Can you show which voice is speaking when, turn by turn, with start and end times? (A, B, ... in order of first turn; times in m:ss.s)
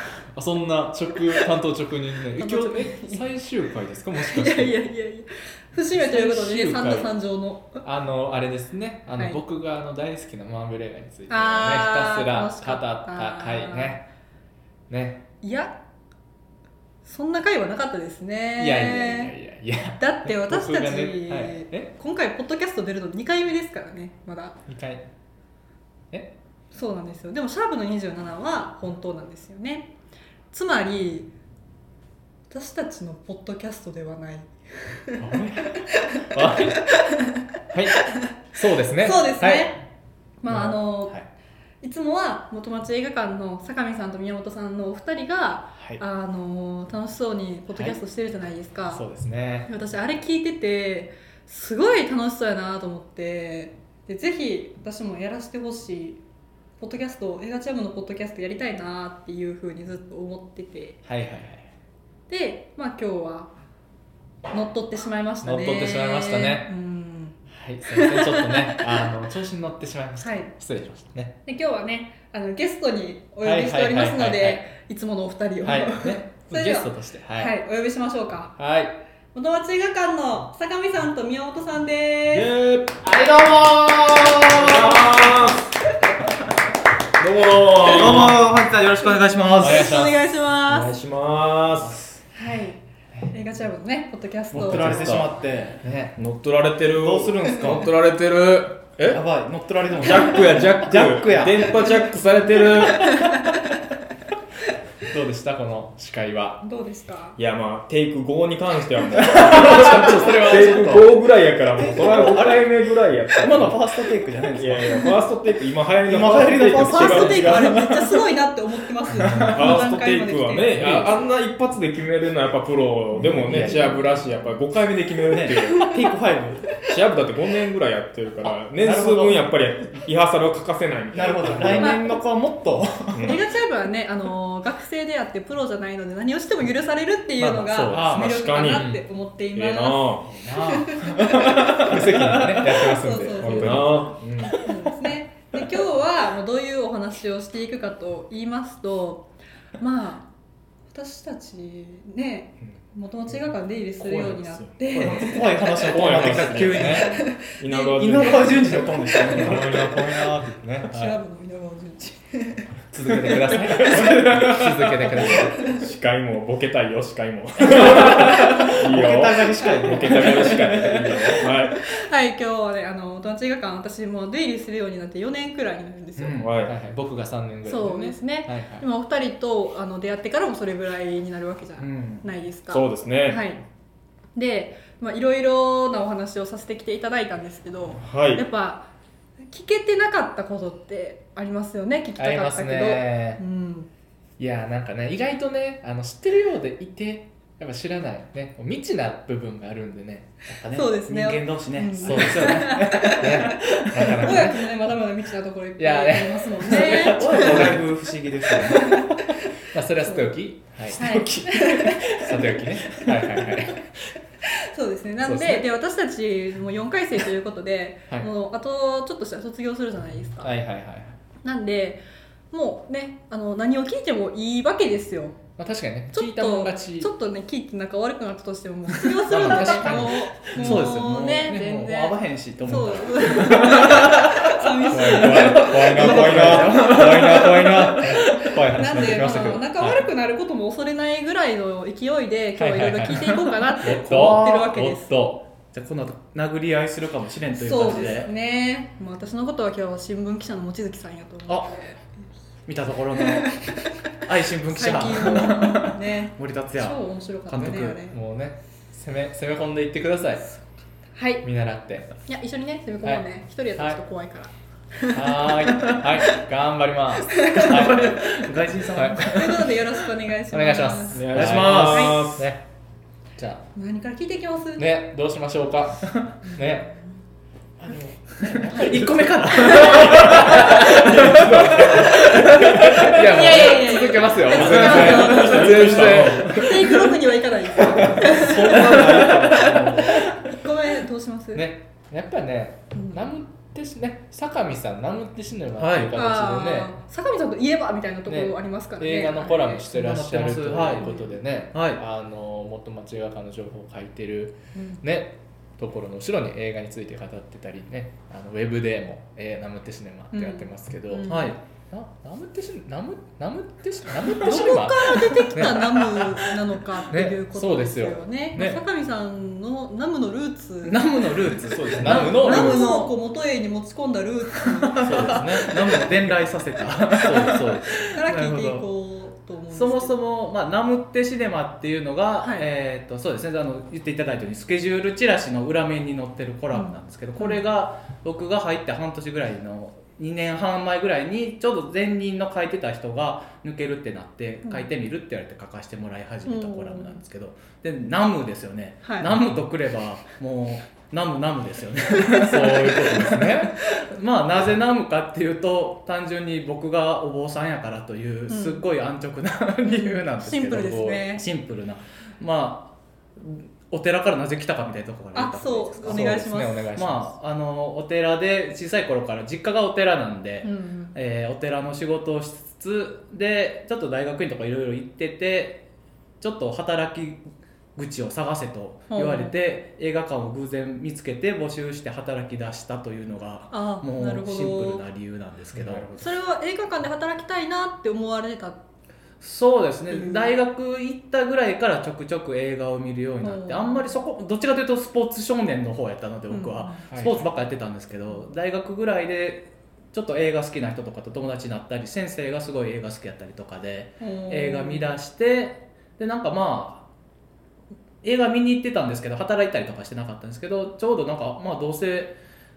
0:00.3-0:04.8 A
0:02.4-0:03.2 B
0:04.2-0:07.8 B
0:05.9-0:07.1 A
0:07.8-0:14.0 A
0:11.3-0:14.0 B
0:14.9-0:15.2 A
0:15.4-0:15.7 B
0:17.0-0:19.3 B
0:18.6-0:21.9 A
0:20.0-0:24.6 B
0:24.7-0:25.0 A
0:26.7-0:29.9 B
0:30.5-0:31.3 B
0:32.5-0:37.4 B
0:35.2-0:36.8 A
0:37.7-0:39.7 A
0:39.0-0:39.8 B
0:40.4-0:41.2 B
0:40.5-0:41.2 A
0:41.8-0:49.0 B
0:48.9-0:49.7 A
0:49.7-0:56.2 B
0:56.8-1:01.0 B
1:01.0-1:01.7 A
1:02.3-1:03.5 B
1:04.5-1:07.3 B
1:05.4-1:06.7 A
1:07.5-1:11.4 A
1:07.9-1:08.8 B
1:10.2-1:10.5 B
1:11.4-1:18.6 B
1:13.4-1:14.7 A
1:15.6-1:17.6 A
1:18.6-1:19.0 A
1:19.3-1:22.5 B
1:22.3-1:22.9 A
1:23.0-1:25.2 C
1:24.5-1:25.7 D
1:27.2-1:28.5 D
1:27.8-1:30.0 C
1:29.6-1:30.2 A
1:29.6-1:30.9 B
1:30.7-1:32.1 D
1:32.3-1:32.8 B
1:33.3-1:35.4 B
1:34.5-1:35.8 C
1:34.6-1:36.1 A
1:36.2-1:39.2 D
1:37.0-1:37.9 C
1:39.1-1:41.9 C
1:40.0-1:43.3 D
1:45.1-1:46.6 A
1:46.6-1:47.4 B
1:47.4-1:53.8 D
1:49.2-1:50.6 C
1:49.4-1:51.1 A
1:51.8-1:52.7 C
1:53.4-1:55.2 C
1:54.5-1:57.8 D
1:56.0-1:58.2 C
1:56.9-2:00.7 B
1:59.2-1:59.8 A
1:59.2-1:59.5 C
1:59.4-2:05.9 D
2:00.7-2:01.1 A
2:03.1-2:03.5 C
2:03.4-2:03.9 A
2:05.3-2:06.8 C
2:06.8-2:12.0 D
2:08.7-2:09.5 C
2:11.1-2:13.4 C
2:13.1-2:13.4 D
2:13.2-2:21.8 B
2:17.4-2:18.4 C
2:17.7-2:18.0 A
2:17.9-2:18.9 D
2:18.7-2:19.0 A
2:19.6-2:20.2 D
2:20.2-2:22.8 C
2:21.7-2:24.2 A
2:22.7-2:30.3 B
2:23.4-2:24.6 D
2:30.9-2:35.7 B
2:34.0-2:39.0 D
2:35.0-2:37.2 C
2:36.6-2:37.0 A
2:36.8-2:39.5 B
2:37.9-2:40.3 C
2:39.3-2:41.2 A
2:40.9-2:44.2 B
2:42.9-2:45.6 A
2:43.9-2:44.7 C
2:45.1-2:51.8 D
2:47.7-2:51.3 C
2:50.2-2:50.5 B
2:51.4-2:56.5 B
2:56.2-2:56.5 C
2:56.4-2:56.7 D
2:56.6-2:58.9 A
2:57.6-3:03.6 B
3:01.8-3:02.3 C
3:02.7-3:03.4 D
3:04.3-3:08.9 B
3:08.0-3:08.4 D
3:09.5-3:13.9 B
3:12.2-3:13.4 A
3:14.4-3:20.4 A
3:20.5-3:24.4 C
3:20.7-3:27.8 B
3:22.0-3:24.6 A
3:25.8-3:27.9 A
3:26.6-3:29.1 C
3:28.6-3:29.5 B
3:29.6-3:31.0 A
3:30.0-3:30.3 B
3:30.9-3:32.5 C
3:30.9-3:32.5 B
3:31.9-3:33.9 A
3:34.4-3:40.5 B
3:35.2-3:35.6 A
3:40.4-3:41.2 A
3:41.4-3:45.4 B
3:45.6-3:47.1 A
3:46.1-3:56.4 B
3:49.3-3:50.9 A
3:49.3-3:59.2 C
3:54.9-4:00.0 A
3:58.7-4:05.1 B
4:02.6-4:05.4 A
4:03.1-4:04.7 C
4:05.7-4:08.3 C
4:07.6-4:12.0 B
4:12.6-4:13.6 C
4:13.2-4:18.2 B
4:14.2-4:18.0 C
4:18.1-4:20.4 A
4:21.1-4:21.4 B
4:21.4-4:22.1 A
4:22.2-4:26.4 B
4:23.0-4:24.0 A
4:25.1-4:28.2 A
4:27.3-4:27.7 B
4:27.5-4:29.8 C
4:28.9-4:29.7 A
4:29.1-4:31.3 B
4:30.5-4:32.6 A
4:31.1-4:32.5 D
4:31.3-4:32.4 C
4:31.9-4:32.2 B
4:33.4-4:33.6 A
4:33.7-4:34.9 B
4:34.8-4:36.9 A
4:36.4-4:37.0 B
4:37.8-4:46.8 A
4:38.4-4:43.5 C
4:38.7-4:39.0 B
4:39.5-4:41.1 B
4:41.1-4:43.0 D
4:43.0-4:49.4 B
4:44.6-4:45.0 C
4:44.8-4:46.8 D
4:47.9-4:49.9 C
4:48.1-4:50.0 A
4:48.4-4:50.2 D
4:50.1-4:51.7 B
4:51.5-4:57.0 A
4:52.9-4:53.2 B
4:55.8-4:56.1 C
4:56.1-4:59.9 B
4:58.3-5:16.1 A
4:59.9-5:02.0 C
5:00.7-5:01.3 B
5:04.8-5:05.0 B
5:10.3-5:11.6 B
5:11.3-5:11.6 C
5:14.3-5:21.3 B
5:17.1-5:18.8 A
5:20.8-5:23.1 C
5:21.6-5:23.0 A
5:22.0-5:25.4 B
5:24.7-5:28.9 C
5:25.0-5:26.1 A
5:27.1-5:28.0 A
5:28.0-5:30.1 B
5:29.7-6:15.8 C
5:32.4-5:32.7 B
5:36.7-5:37.6 B
5:44.6-5:44.9 B
5:46.4-5:47.2 B
5:49.0-5:49.3 B
5:52.4-5:53.8 A
5:58.5-5:58.8 B
5:59.8-6:01.4 B
6:05.3-6:06.8 B
6:06.0-6:07.3 A
6:10.6-6:11.2 B
6:16.4-6:17.4 C
6:18.0-6:26.1 C
6:19.1-6:19.5 B
6:23.7-6:25.0 B
6:25.8-6:26.1 D
6:26.2-6:28.8 B
6:29.4-6:47.0 C
6:30.1-6:30.5 B
6:33.4-6:34.1 B
6:36.5-6:37.0 B
6:37.1-6:37.5 A
6:44.2-6:45.1 B
6:48.2-6:52.4 C